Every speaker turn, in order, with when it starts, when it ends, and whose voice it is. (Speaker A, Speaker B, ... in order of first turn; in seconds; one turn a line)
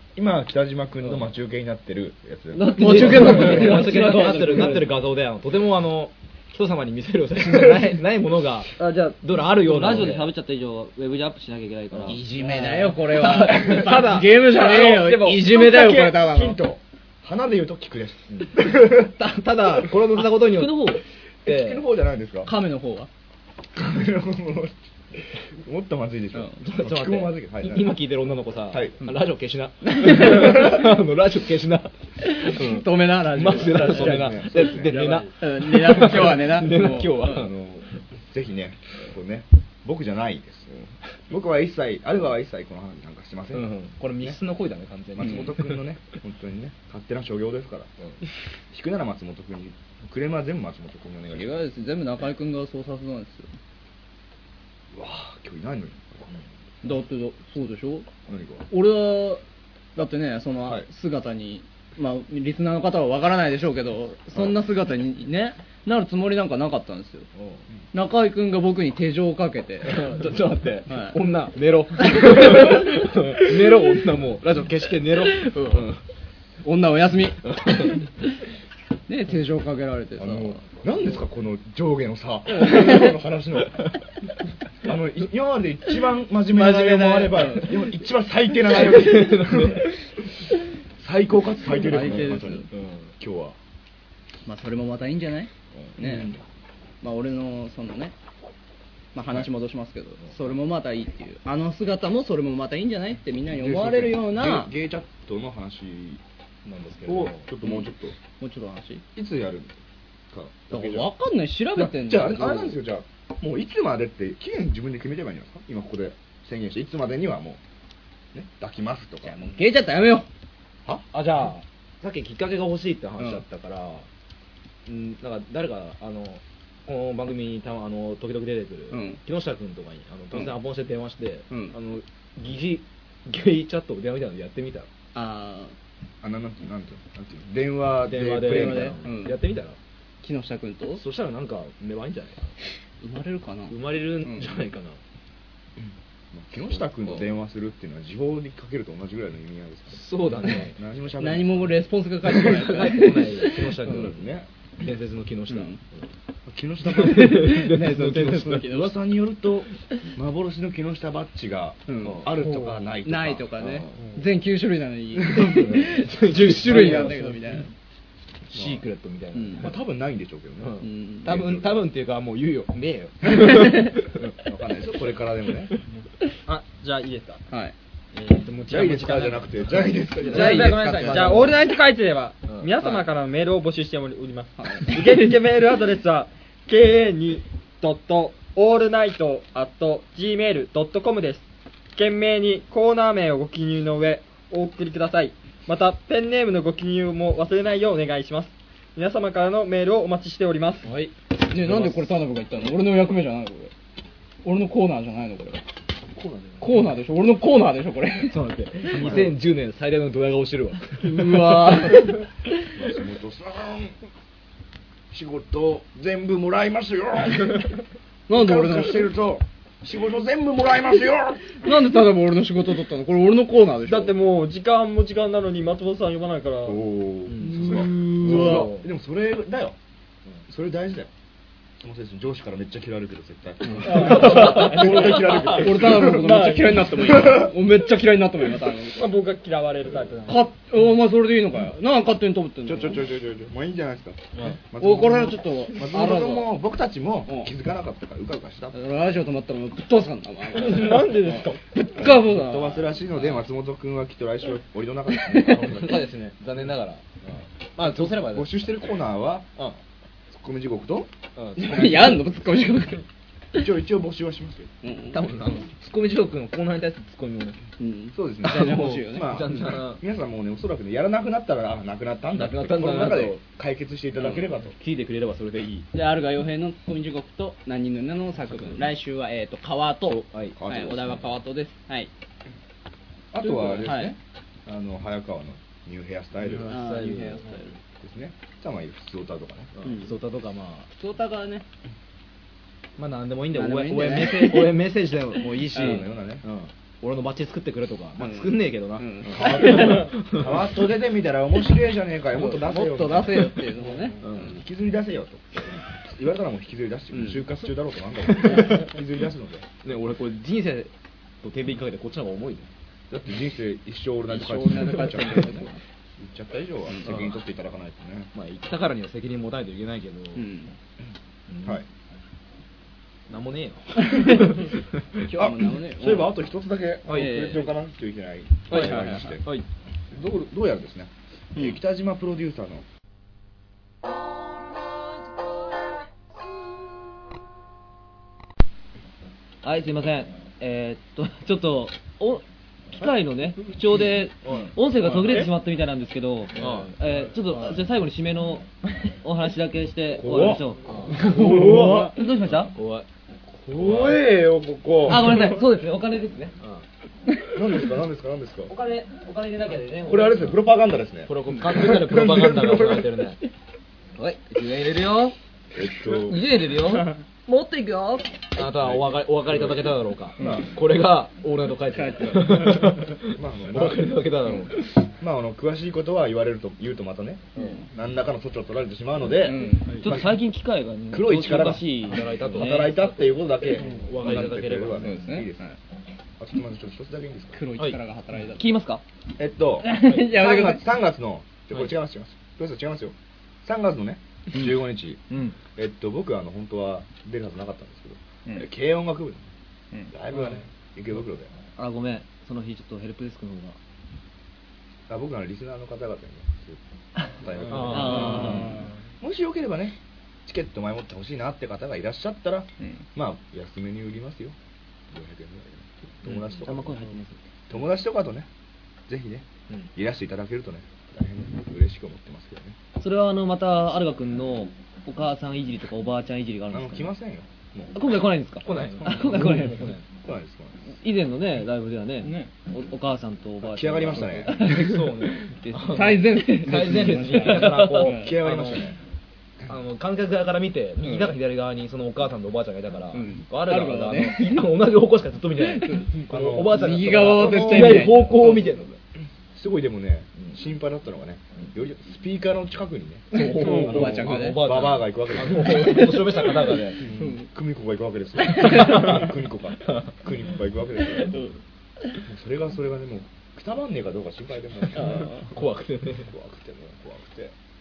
Speaker A: 0.2-3.5
Speaker B: 1.0-1.3
Speaker C: 2.5-4.9
Speaker D: 2.8-4.3
Speaker B: 2.8-10.3
Speaker C: 8.8-12.2
Speaker D: 12.1-16.6
Speaker B: 12.2-14.5
Speaker A: 14.6-19.1
Speaker B: 18.3-21.9
Speaker C: 20.4-21.0
Speaker A: 21.4-22.6
Speaker D: 22.4-23.1
Speaker A: 23.7-28.1
Speaker B: 26.6-37.5
Speaker A: 28.7-29.0
Speaker D: 29.9-30.6
Speaker D: 32.2-34.2
Speaker A: 33.5-35.0
Speaker E: 34.8-35.3
Speaker D: 35.4-37.2
Speaker A: 37.1-40.8
Speaker A: 41.3-44.4
Speaker B: 43.5-45.8
Speaker A: 45.2-47.9
Speaker A: 48.7-51.8
Speaker D: 51.4-53.5
Speaker A: 54.9-56.4
Speaker D: 56.8-58.1
Speaker A: 58.3-58.7
Speaker D: 58.7-59.4
Speaker D: 60.0-67.3
Speaker A: 60.6-60.9
Speaker D: 67.9-70.1
Speaker B: 69.8-76.0
Speaker D: 70.9-71.2
Speaker D: 72.1-72.7
Speaker D: 75.4-75.9
Speaker D: 76.6-77.5
Speaker B: 77.5-78.0
Speaker D: 79.1-80.6
Speaker A: 80.2-84.0
Speaker A: 84.8-93.6
Speaker D: 86.5-87.8
Speaker B: 88.9-89.8
Speaker D: 91.8-92.7
Speaker B: 92.7-93.1
Speaker D: 94.5-96.3
Speaker B: 95.9-96.2
Speaker A: 96.0-96.4
Speaker D: 97.0-98.1
Speaker D: 99.2-104.7
Speaker A: 103.5-106.2
Speaker B: 106.7-107.5
Speaker A: 107.1-108.2
Speaker D: 108.4-109.0
Speaker A: 109.2-109.8
Speaker A: 110.3-111.2
Speaker D: 110.7-112.8
Speaker A: 111.7-117.6
Speaker A: 118.3-119.6
Speaker D: 119.3-120.3
Speaker B: 121.1-124.1
Speaker B: 124.9-134.9
Speaker D: 128.9-129.2
Speaker D: 131.5-131.8
Speaker D: 135.2-135.7
Speaker A: 136.2-139.0
Speaker B: 138.0-139.8
Speaker D: 138.5-139.4
Speaker D: 140.2-141.0
Speaker B: 140.9-142.6
Speaker D: 143.0-144.5
Speaker B: 143.7-145.0
Speaker A: 145.8-151.8
Speaker B: 149.9-150.8
Speaker D: 151.2-154.1
Speaker B: 152.3-156.1
Speaker A: 153.9-154.5
Speaker D: 155.5-155.8
Speaker A: 156.5-164.0
Speaker B: 156.9-158.7
Speaker D: 157.1-158.9
Speaker D: 161.9-162.2
Speaker D: 163.1-167.7
Speaker B: 165.3-167.4
Speaker A: 165.4-165.7
Speaker B: 168.5-169.8
Speaker A: 168.5-168.8
Speaker D: 169.3-169.7
Speaker A: 169.6-171.9
Speaker B: 170.6-174.3
Speaker D: 170.8-171.3
Speaker A: 173.3-173.8
Speaker A: 174.4-175.7
Speaker E: 176.5-177.4
Speaker B: 178.2-179.4
Speaker A: 178.7-180.9
Speaker D: 180.3-181.7
Speaker E: 180.3-200.9
Speaker B: 180.3-181.4
Speaker B: 182.5-182.9
Speaker D: 184.6-185.3
Speaker B: 200.8-202.0
Speaker D: 201.4-203.7
Speaker D: 204.4-205.6
Speaker B: 206.2-206.9
Speaker D: 206.6-208.4
Speaker B: 208.2-211.5
Speaker A: 208.9-209.3
Speaker D: 211.0-212.2
Speaker A: 212.7-213.9
Speaker A: 215.1-217.8
Speaker D: 218.3-219.1
Speaker A: 218.3-221.5
Speaker D: 221.6-224.2
Speaker E: 223.8-226.8
Speaker A: 226.7-229.8
Speaker B: 227.3-228.8
Speaker E: 227.7-228.6
Speaker D: 228.1-228.7
Speaker A: 230.5-231.1
Speaker A: 231.8-236.0
Speaker E: 233.8-237.3
Speaker D: 233.8-239.1
Speaker E: 238.9-240.5
Speaker D: 240.3-243.1
Speaker A: 242.7-248.8
Speaker D: 244.8-246.6
Speaker D: 247.3-247.5
Speaker D: 248.7-252.9
Speaker E: 250.6-251.6
Speaker A: 252.0-256.1
Speaker B: 253.2-253.4
Speaker B: 255.3-257.1
Speaker B: 257.8-258.7
Speaker A: 257.8-259.5
Speaker A: 260.3-261.1
Speaker B: 261.4-262.3
Speaker D: 261.6-263.0
Speaker A: 263.6-264.7
Speaker D: 264.8-265.2
Speaker B: 265.1-267.6
Speaker D: 267.8-269.4
Speaker A: 268.1-274.8
Speaker B: 269.2-270.0
Speaker B: 272.4-273.4
Speaker B: 274.8-275.9
Speaker D: 275.9-282.1
Speaker B: 278.5-278.8
Speaker B: 280.1-280.6
Speaker A: 280.6-281.2
Speaker A: 283.3-286.8
Speaker D: 283.4-284.1
Speaker B: 286.5-287.5
Speaker D: 286.6-287.8
Speaker A: 288.0-289.7
Speaker B: 289.8-290.9
Speaker D: 289.8-290.1
Speaker D: 290.9-291.6
Speaker B: 293.0-300.6
Speaker D: 293.5-294.8
Speaker A: 295.7-296.5
Speaker D: 298.2-300.1
Speaker A: 299.3-303.5
Speaker D: 302.3-304.6
Speaker A: 304.2-309.7
Speaker B: 304.2-304.5
Speaker D: 307.1-307.4
Speaker B: 309.8-310.9
Speaker B: 311.4-312.7
Speaker A: 313.1-318.3
Speaker D: 314.3-315.8
Speaker B: 315.0-315.5
Speaker D: 316.9-317.1
Speaker B: 317.1-317.3
Speaker B: 318.3-320.6
Speaker D: 320.4-320.7
Speaker B: 321.5-321.8
Speaker B: 323.3-324.8
Speaker D: 324.0-324.4
Speaker D: 325.2-326.3
Speaker A: 325.3-329.5
Speaker B: 327.1-327.6
Speaker D: 327.1-327.6
Speaker B: 328.7-329.7
Speaker D: 328.7-329.4
Speaker A: 330.1-332.8
Speaker C: 339.6-348.7
Speaker B: 344.5-344.7
Speaker B: 346.6-347.0
Speaker C: 349.2-352.7
Speaker A: 350.1-352.2
Speaker B: 350.4-351.9
Speaker D: 351.2-351.9
Speaker B: 352.6-353.1
Speaker A: 353.5-355.6
Speaker B: 353.8-354.2
Speaker C: 355.1-356.5
Speaker A: 357.5-358.7
Speaker C: 358.7-360.6
Speaker A: 360.1-363.1
Speaker B: 361.3-363.4
Speaker C: 364.2-365.4
Speaker A: 365.7-366.4
Speaker C: 366.2-368.2
Speaker B: 368.6-374.9
Speaker A: 368.6-370.7
Speaker D: 371.9-373.0
Speaker A: 373.3-374.2
Speaker A: 375.2-380.4
Speaker D: 377.6-377.9
Speaker D: 379.4-379.9
Speaker B: 379.9-380.1
Speaker C: 379.9-383.0
Speaker A: 381.1-385.8
Speaker B: 382.1-383.2
Speaker B: 383.8-385.2
Speaker D: 385.0-385.7
Speaker A: 386.4-387.7
Speaker D: 387.5-388.6
Speaker C: 388.4-389.0
Speaker A: 389.4-395.2
Speaker D: 389.8-390.9
Speaker A: 395.7-399.5
Speaker A: 400.1-401.5
Speaker C: 401.8-403.8
Speaker A: 405.1-406.8
Speaker A: 407.3-414.6
Speaker B: 407.7-408.7
Speaker C: 407.8-408.8
Speaker A: 415.1-417.1
Speaker C: 416.3-417.4
Speaker A: 417.7-418.5
Speaker A: 419.1-422.8
Speaker C: 423.0-427.1
Speaker A: 426.7-428.0
Speaker C: 427.9-429.9
Speaker B: 428.6-430.1
Speaker A: 430.2-430.8
Speaker C: 430.9-434.9
Speaker D: 432.2-432.5
Speaker A: 433.6-434.9
Speaker B: 434.6-438.9
Speaker D: 435.9-438.4
Speaker C: 437.5-438.1
Speaker A: 437.5-439.0
Speaker B: 439.7-449.0
Speaker D: 441.0-441.4
Speaker D: 443.1-444.7
Speaker D: 445.6-448.7
Speaker A: 446.2-448.6
Speaker A: 449.5-456.2
Speaker B: 453.3-457.1
Speaker D: 453.3-454.6
Speaker D: 456.7-457.5
Speaker A: 457.0-461.4
Speaker D: 458.4-459.3
Speaker D: 461.2-461.5
Speaker A: 462.2-465.5
Speaker B: 464.9-466.3
Speaker D: 464.9-465.4
Speaker A: 466.2-467.5